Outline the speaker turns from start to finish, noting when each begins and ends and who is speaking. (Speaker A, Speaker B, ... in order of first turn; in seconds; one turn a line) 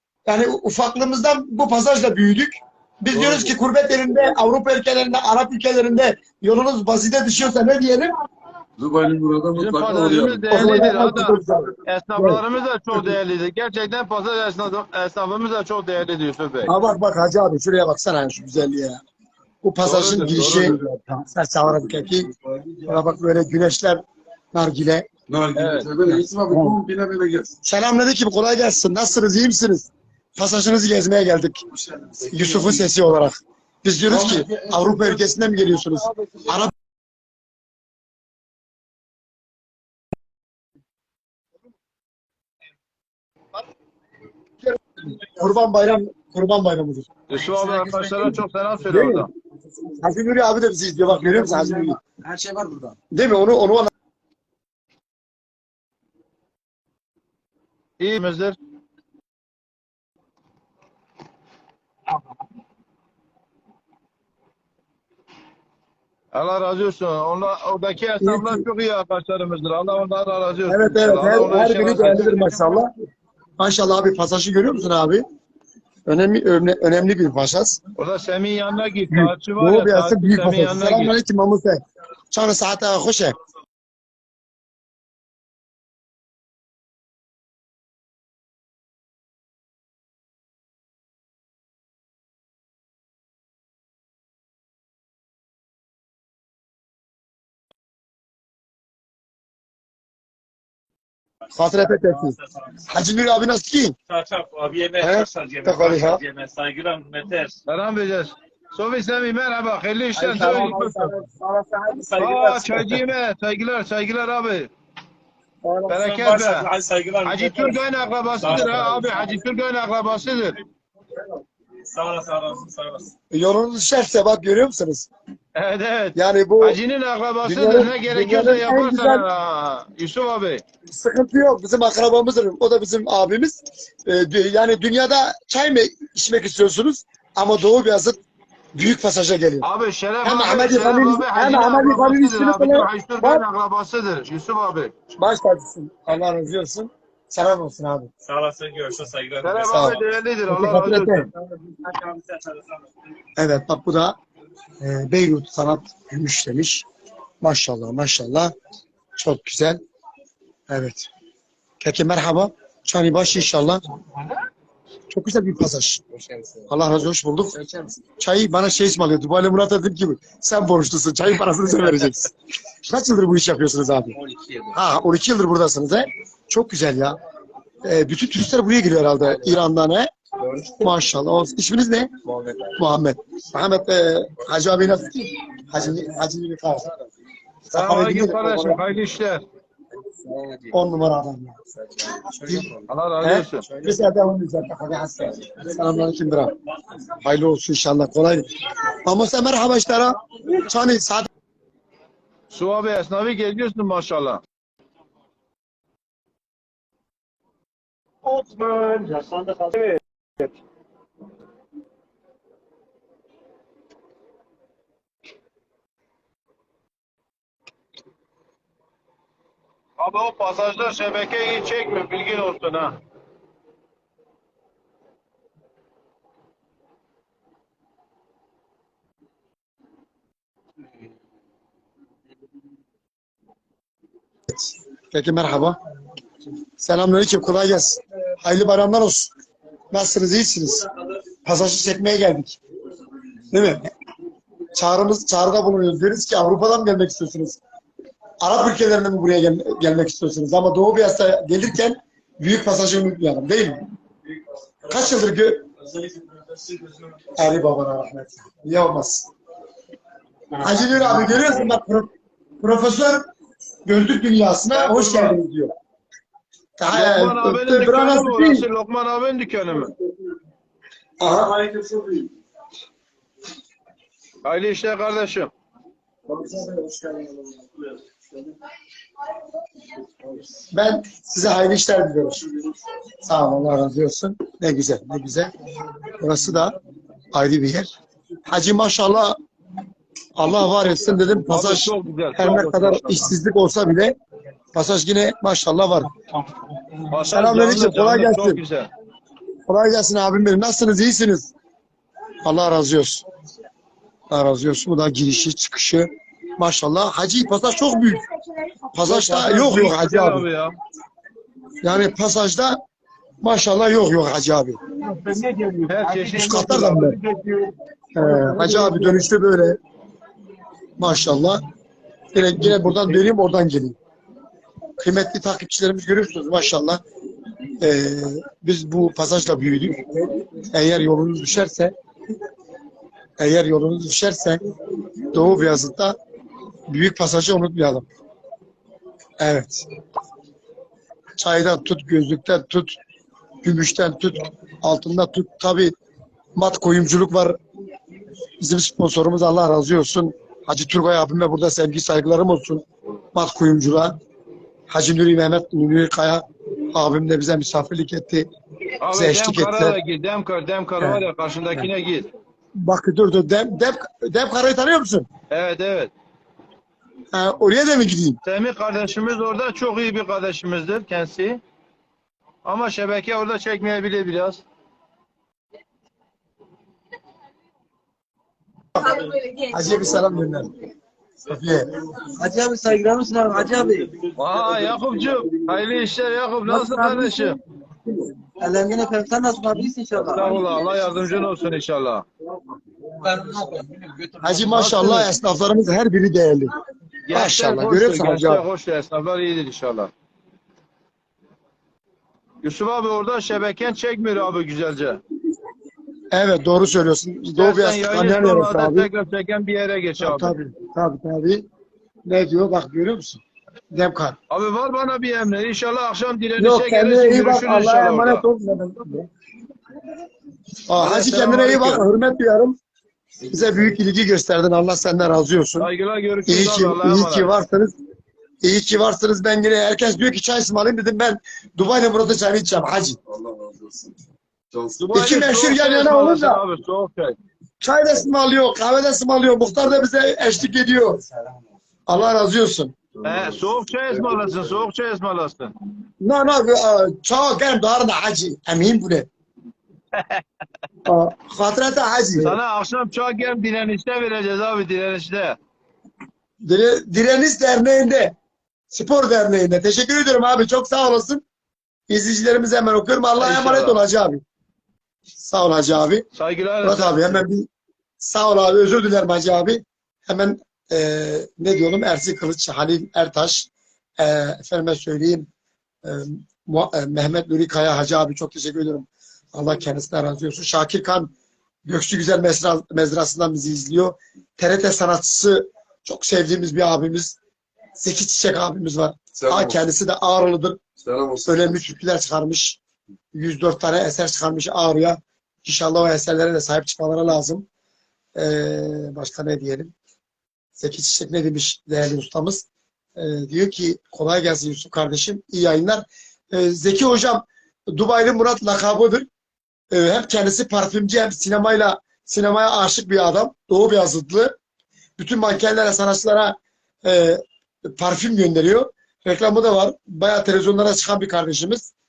Speaker A: 0.2-8.1
Speaker B: 3.1-3.5
Speaker B: 8.8-10.9
Speaker C: 9.6-11.3
Speaker A: 10.5-12.4
Speaker C: 11.9-16.7
Speaker A: 16.6-19.0
Speaker A: 19.6-22.3
Speaker C: 19.9-20.8
Speaker B: 19.9-21.0
Speaker B: 21.7-23.2
Speaker A: 22.9-25.1
Speaker B: 25.3-27.5
Speaker C: 25.6-25.9
Speaker A: 26.0-26.8
Speaker A: 27.6-31.6
Speaker B: 31.7-32.9
Speaker A: 32.3-36.7
Speaker D: 34.5-34.8
Speaker A: 44.6-47.1
Speaker C: 47.3-49.3
Speaker E: 47.5-48.2
Speaker A: 48.9-49.3
Speaker A: 50.0-52.0
Speaker E: 51.3-51.7
Speaker D: 51.8-52.9
Speaker A: 53.1-53.9
Speaker C: 58.0-58.5
Speaker C: 66.3-72.8
Speaker A: 68.2-68.7
Speaker A: 70.7-72.9
Speaker A: 73.6-75.2
Speaker A: 76.1-77.8
Speaker C: 78.0-81.1
Speaker A: 79.1-83.3
Speaker A: 101.5-102.3
Speaker F: 101.9-102.8
Speaker A: 102.9-104.0
Speaker F: 104.1-107.6
Speaker A: 105.0-106.2
Speaker C: 107.7-111.1
Speaker A: 110.1-112.1
Speaker F: 111.9-112.7
Speaker C: 112.2-114.7
Speaker F: 115.8-117.8
Speaker C: 115.9-116.7
Speaker C: 117.2-120.5
Speaker F: 118.4-119.4
Speaker F: 121.9-123.1
Speaker A: 123.3-125.1
Speaker C: 125.5-130.6
Speaker A: 126.1-126.8
Speaker A: 127.4-129.2
Speaker A: 130.9-138.2
Speaker A: 138.7-139.7
Speaker C: 139.6-144.9
Speaker A: 140.2-143.4
Speaker A: 145.2-148.1
Speaker F: 148.2-150.0
Speaker C: 149.4-151.3
Speaker A: 149.7-151.3
Speaker F: 151.3-152.8
Speaker A: 153.4-154.2
Speaker A: 154.8-156.8
Speaker A: 157.4-158.5
Speaker A: 159.2-159.8
Speaker A: 160.7-161.1
Speaker A: 161.8-163.8
Speaker A: 165.1-166.0
Speaker E: 166.1-166.8
Speaker A: 166.7-167.5
Speaker E: 167.5-168.0
Speaker A: 168.2-172.3
Speaker A: 172.8-174.2
Speaker E: 174.2-174.7
Speaker A: 174.7-177.2
Speaker A: 177.8-180.1
Speaker E: 179.2-179.6
Speaker E: 180.4-180.8
Speaker A: 180.7-182.1
Speaker E: 182.2-182.8
Speaker A: 182.8-186.8
Speaker E: 185.7-186.2
Speaker C: 187.7-189.4
Speaker A: 187.7-188.6
Speaker E: 188.1-188.8
Speaker E: 190.2-190.7
Speaker A: 190.7-191.6
Speaker E: 191.8-192.8
Speaker C: 192.9-193.6
Speaker A: 193.2-196.5
Speaker E: 193.6-194.1
Speaker A: 197.2-198.5
Speaker A: 199.0-201.3
Speaker C: 202.5-204.4
Speaker F: 208.2-210.0
Speaker C: 220.0-222.9
Speaker A: 234.6-235.8
Speaker A: 236.8-239.3
Speaker A: 239.9-240.8
Speaker A: 241.4-242.6
Speaker A: 243.5-243.9
Speaker A: 244.7-247.6
Speaker A: 248.4-253.8
Speaker A: 254.9-255.7
Speaker A: 257.4-259.3
Speaker A: 260.6-263.2
Speaker A: 263.9-265.7
Speaker C: 264.7-265.4
Speaker A: 266.8-268.6
Speaker C: 266.9-269.9
Speaker A: 271.2-272.3
Speaker C: 274.4-275.5
Speaker A: 276.3-276.9
Speaker A: 280.7-282.4
Speaker A: 283.2-285.5
Speaker A: 286.1-286.8
Speaker A: 287.3-287.9
Speaker A: 288.4-289.4
Speaker A: 290.4-294.1
Speaker C: 291.4-293.3
Speaker A: 294.7-296.1
Speaker C: 297.1-298.9
Speaker A: 297.2-298.6
Speaker A: 299.7-301.5
Speaker A: 302.4-303.2
Speaker A: 304.3-308.2
Speaker A: 308.9-310.4
Speaker C: 309.0-310.7
Speaker A: 311.8-312.8
Speaker A: 313.4-314.8
Speaker F: 315.0-317.6
Speaker C: 315.9-317.0
Speaker A: 316.3-317.2
Speaker A: 318.1-319.8
Speaker A: 321.0-321.6
Speaker A: 322.3-324.0
Speaker A: 325.0-327.0
Speaker A: 327.8-331.9
Speaker A: 333.4-334.6
Speaker A: 335.3-336.1
Speaker A: 336.9-338.1
Speaker A: 339.4-339.9
Speaker A: 341.4-342.9
Speaker A: 343.6-345.9
Speaker A: 346.5-347.6
Speaker A: 348.6-354.2
Speaker A: 354.9-358.5
Speaker C: 359.0-362.3
Speaker A: 359.1-359.9
Speaker A: 362.8-365.3
Speaker C: 365.5-366.1
Speaker A: 367.3-368.4
Speaker C: 368.4-371.6
Speaker C: 372.6-374.6
Speaker A: 379.0-380.8
Speaker A: 381.5-381.9
Speaker E: 382.2-385.5
Speaker C: 384.4-387.6
Speaker E: 386.7-387.5
Speaker E: 388.6-391.1
Speaker C: 390.3-392.2
Speaker E: 393.1-394.9
Speaker A: 394.4-396.7
Speaker C: 394.7-395.3
Speaker C: 397.3-400.1
Speaker A: 397.3-398.6
Speaker C: 402.6-405.2
Speaker A: 406.3-409.1
Speaker C: 407.6-410.5
Speaker A: 410.2-411.7
Speaker A: 412.2-413.4
Speaker A: 413.9-414.4
Speaker C: 414.5-418.4
Speaker A: 416.6-419.3
Speaker A: 420.9-422.8
Speaker C: 420.9-422.0
Speaker B: 423.4-423.9
Speaker A: 423.5-425.9
Speaker C: 425.8-427.5
Speaker A: 426.4-427.9
Speaker A: 428.6-433.2
Speaker B: 433.3-434.1
Speaker B: 434.7-435.1
Speaker C: 435.0-437.4
Speaker A: 435.1-436.6
Speaker A: 437.8-441.2
Speaker D: 441.1-441.7
Speaker A: 442.1-442.9
Speaker B: 443.1-444.9
Speaker C: 443.2-445.7
Speaker A: 446.2-449.3
Speaker C: 450.1-450.4
Speaker A: 451.1-452.6
Speaker C: 452.4-455.6
Speaker A: 456.6-458.3
Speaker A: 458.9-461.4
Speaker A: 462.1-464.4
Speaker C: 463.4-464.0
Speaker A: 465.4-466.2
Speaker C: 466.3-467.4
Speaker A: 466.8-467.7
Speaker A: 468.2-475.5
Speaker A: 476.0-481.3
Speaker A: 481.8-487.4
Speaker A: 488.0-490.8
Speaker B: 489.4-489.8
Speaker B: 491.0-491.9
Speaker A: 491.4-492.8
Speaker A: 493.3-497.7
Speaker A: 498.4-499.9
Speaker A: 500.8-502.6
Speaker A: 503.2-509.3
Speaker A: 509.9-514.5
Speaker A: 515.2-521.9